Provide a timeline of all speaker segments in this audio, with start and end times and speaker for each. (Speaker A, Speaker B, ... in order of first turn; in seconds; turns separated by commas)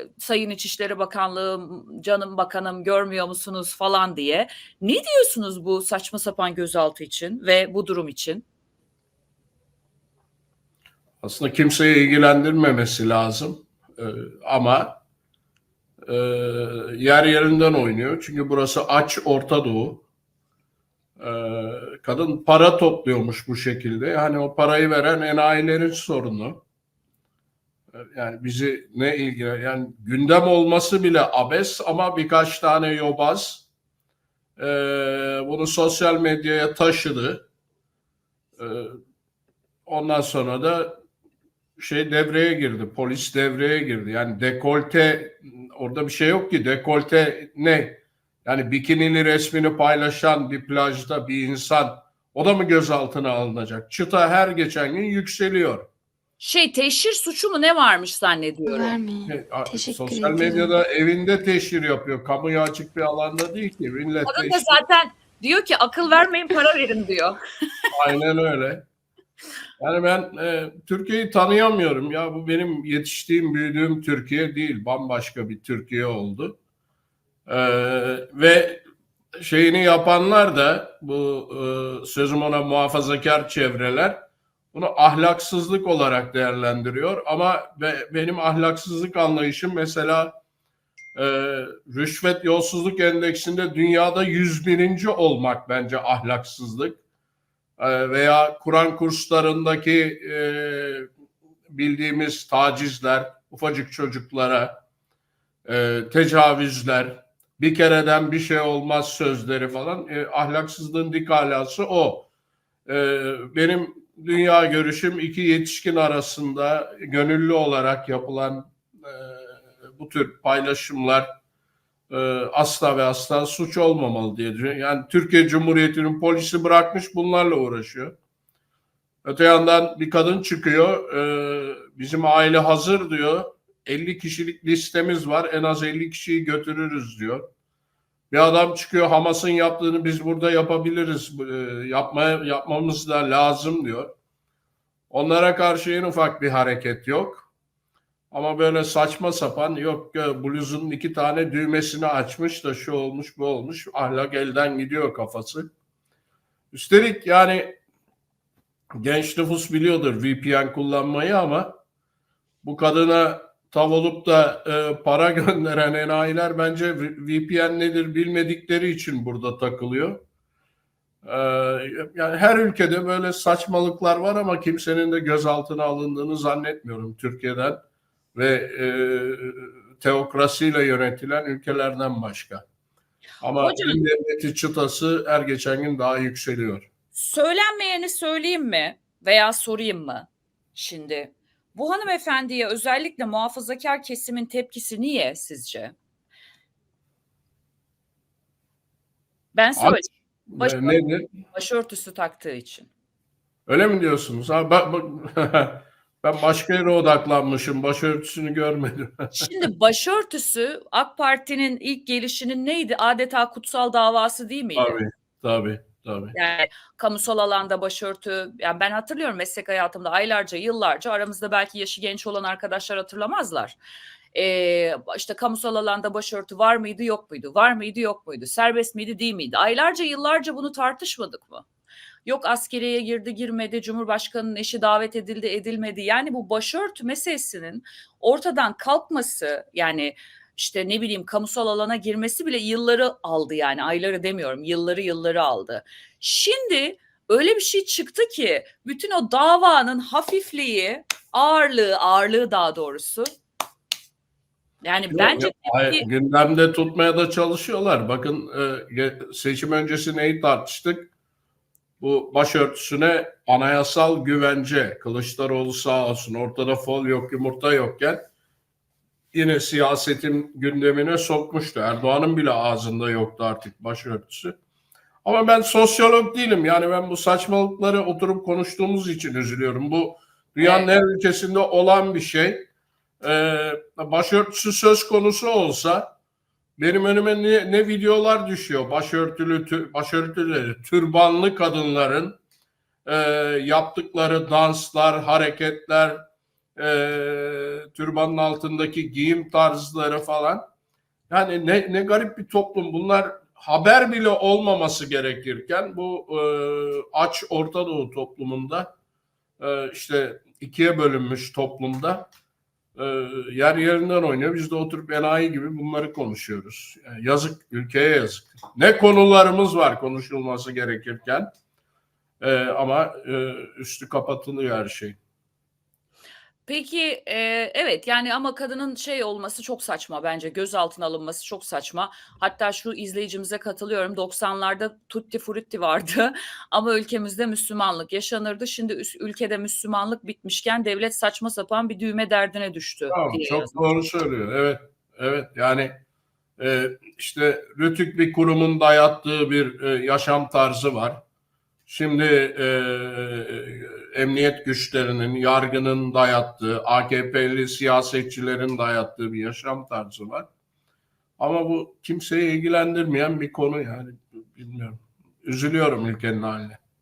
Speaker A: 0.2-8.4, Speaker B: 11.2-15.0, Speaker B: 16.1-20.0, Speaker B: 21.2-26.6, Speaker B: 27.9-33.7, Speaker B: 34.6-37.5, Speaker B: 38.6-38.9, Speaker B: 39.9-41.0, Speaker B: 41.8-55.9, Speaker A: 56.4-59.0, Speaker C: 58.7-60.7, Speaker B: 59.3-64.8, Speaker A: 64.2-67.4, Speaker B: 67.9-68.8, Speaker B: 69.8-76.6, Speaker B: 77.5-78.8, Speaker B: 79.4-84.2, Speaker B: 84.7-90.3, Speaker B: 91.2-97.0, Speaker B: 97.8-101.1, Speaker B: 101.7-104.7, Speaker B: 105.7-112.3, Speaker B: 112.8-121.3, Speaker B: 122.1-128.2, Speaker B: 129.2-137.4, Speaker B: 138.3-144.1, Speaker B: 145.1-147.5, Speaker B: 148.3-155.7, Speaker B: 156.7-157.8, Speaker B: 159.0-161.7, Speaker B: 162.6-170.2, Speaker B: 171.2-177.8, Speaker B: 178.3-182.6, Speaker B: 183.4-186.9, Speaker A: 183.6-184.0, Speaker A: 187.1-195.9, Speaker A: 199.5-202.9, Speaker B: 199.8-201.3, Speaker B: 203.7-209.5, Speaker A: 209.3-215.0, Speaker B: 214.8-216.3, Speaker A: 216.3-223.8, Speaker A: 224.3-231.6, Speaker A: 232.2-253.3, Speaker A: 254.8-256.0, Speaker B: 255.1-261.1, Speaker B: 262.0-268.2, Speaker B: 269.3-274.5, Speaker B: 275.2-282.7, Speaker A: 280.6-280.9, Speaker B: 283.2-286.1, Speaker B: 286.8-292.4, Speaker B: 293.1-296.2, Speaker B: 296.8-300.6, Speaker B: 301.3-308.9, Speaker B: 309.6-312.3, Speaker B: 312.9-321.5, Speaker B: 322.4-325.2, Speaker A: 326.6-343.8, Speaker B: 343.1-345.9, Speaker B: 346.6-351.2, Speaker B: 351.9-360.5, Speaker B: 361.4-366.8